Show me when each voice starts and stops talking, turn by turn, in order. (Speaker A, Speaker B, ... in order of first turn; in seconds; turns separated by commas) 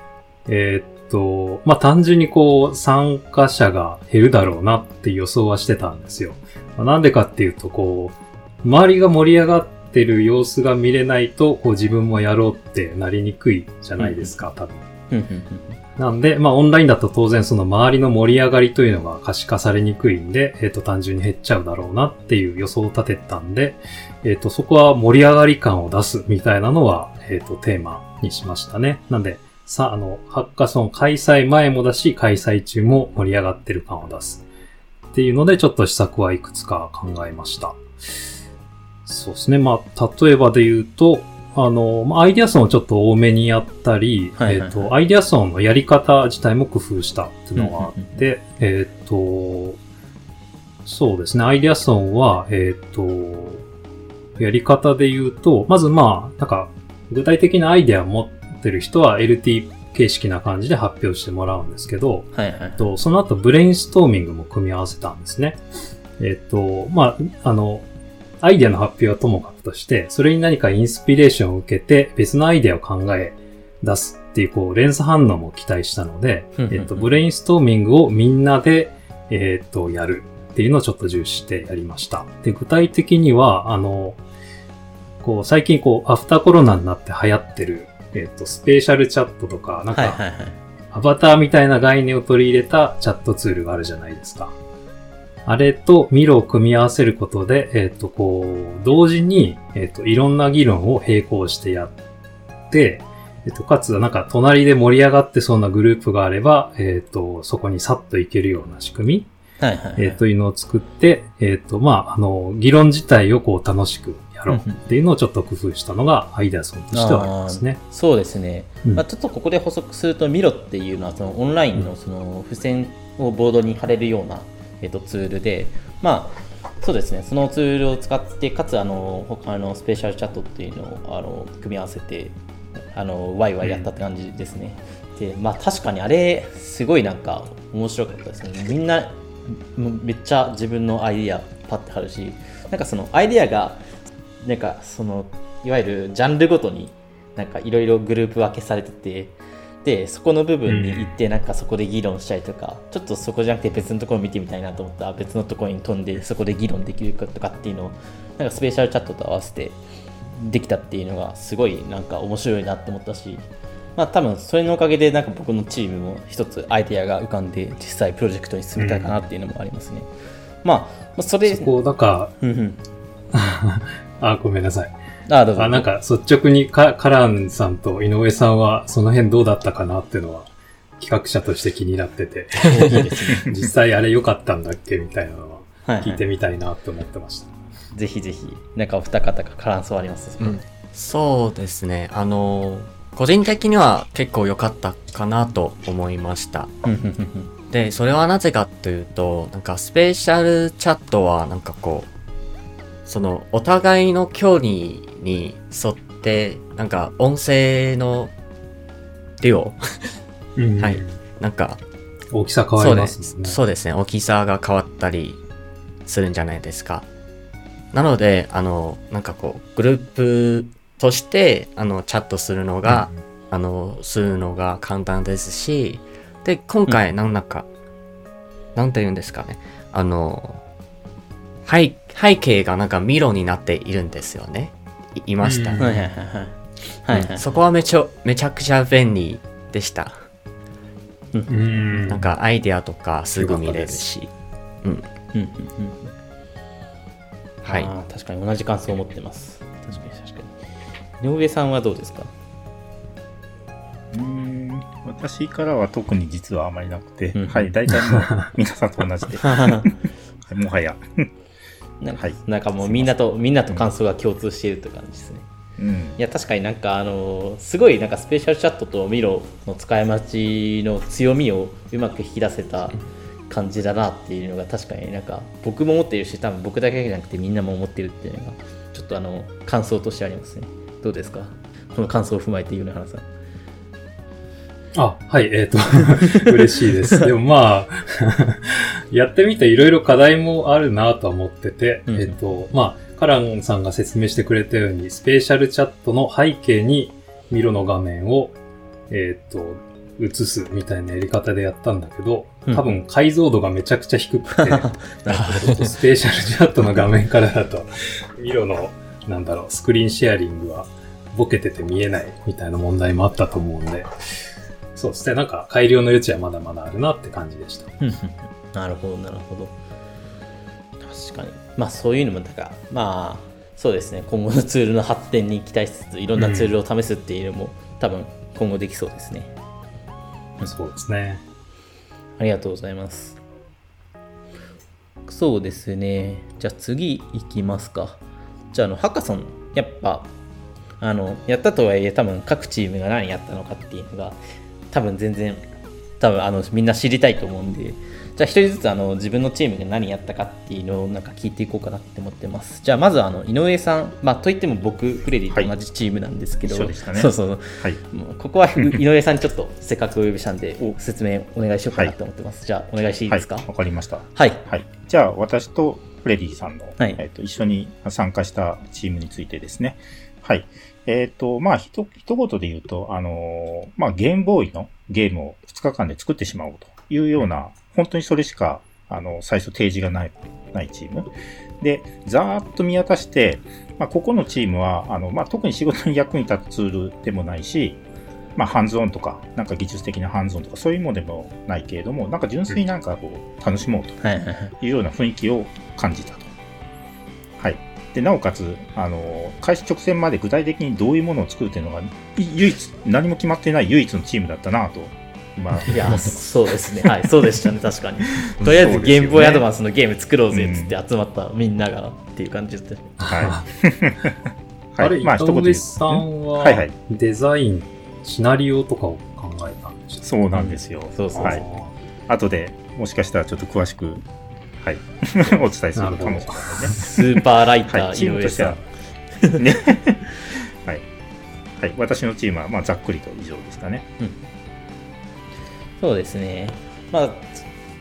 Speaker A: 0.5-14.9, Speaker B: 14.0-14.3, Speaker B: 15.1-15.8, Speaker A: 16.0-34.5, Speaker A: 35.1-38.1, Speaker A: 39.0-49.8, Speaker B: 44.4-44.9, Speaker B: 47.5-48.2, Speaker A: 50.9-53.6, Speaker A: 54.4-65.6, Speaker B: 62.3-62.9, Speaker A: 66.2-67.8, Speaker A: 68.4-84.2, Speaker B: 76.6-77.2, Speaker A: 85.2-90.2, Speaker B: 89.9-90.6, Speaker A: 90.9-94.6, Speaker A: 95.5-101.9, Speaker A: 102.7-109.3, Speaker B: 109.6-110.2, Speaker A: 110.0-117.8, Speaker B: 114.5-114.8, Speaker B: 116.9-132.4, Speaker B: 132.9-143.8, Speaker B: 144.4-170.1, Speaker A: 150.7-151.1, Speaker A: 168.8-169.2, Speaker B: 170.6-171.7, Speaker A: 171.4-172.3, Speaker B: 172.4-172.8, Speaker A: 173.3-174.9, Speaker B: 175.3-175.9, Speaker A: 175.6-187.5, Speaker B: 182.6-183.5, Speaker B: 185.8-186.2, Speaker B: 187.9-190.6, Speaker C: 190.4-196.7, Speaker B: 196.9-197.5, Speaker C: 197.7-202.1, Speaker C: 203.1-208.3, Speaker C: 209.4-209.8, Speaker A: 210.6-211.2, Speaker C: 210.8-211.8, Speaker A: 212.3-213.6, Speaker C: 212.8-215.4, Speaker C: 216.1-217.1, Speaker C: 217.9-227.7, Speaker C: 228.8-230.6, Speaker C: 231.7-236.0, Speaker A: 235.4-235.8, Speaker B: 235.8-237.5, Speaker C: 237.1-240.2, Speaker A: 241.5-242.3, Speaker C: 242.1-244.3, Speaker A: 243.4-244.0, Speaker C: 244.8-245.1, Speaker B: 245.3-246.1, Speaker C: 247.6-247.9, Speaker B: 247.7-250.6, Speaker B: 251.2-252.3, Speaker D: 254.1-261.3, Speaker B: 257.4-257.7, Speaker B: 259.3-259.9, Speaker B: 262.0-265.5, Speaker D: 262.1-263.1, Speaker D: 265.8-266.2, Speaker B: 266.2-283.3, Speaker A: 284.9-298.6, Speaker B: 292.1-292.4, Speaker A: 299.1-314.1, Speaker B: 304.6-305.9, Speaker C: 305.3-305.9, Speaker A: 314.9-318.0, Speaker B: 318.0-319.8, Speaker B: 321.0-329.5, Speaker A: 326.4-326.7, Speaker A: 330.6-331.4, Speaker B: 332.4-333.4, Speaker B: 335.3-338.2, Speaker B: 338.7-340.3, Speaker B: 341.0-344.4, Speaker B: 344.9-345.6, Speaker B: 346.2-363.7, Speaker D: 356.6-358.0, Speaker D: 363.3-388.0, Speaker B: 364.4-364.6, Speaker D: 388.6-394.2, Speaker B: 394.2-394.7, Speaker D: 394.8-396.5, Speaker D: 397.6-406.9, Speaker B: 405.8-413.2, Speaker D: 408.6-409.7, Speaker D: 410.5-410.9, Speaker A: 413.2-413.6, Speaker D: 413.2-414.4, Speaker D: 414.9-416.9, Speaker A: 415.0-420.2, Speaker D: 420.2-421.6, Speaker B: 420.5-421.6, Speaker A: 421.3-421.9, Speaker D: 422.3-424.3, Speaker D: 424.8-427.1, Speaker A: 426.0-427.1, Speaker B: 426.9-428.9, Speaker D: 427.9-428.8, Speaker D: 429.6-431.1, Speaker D: 431.8-434.1, Speaker B: 436.0-437.6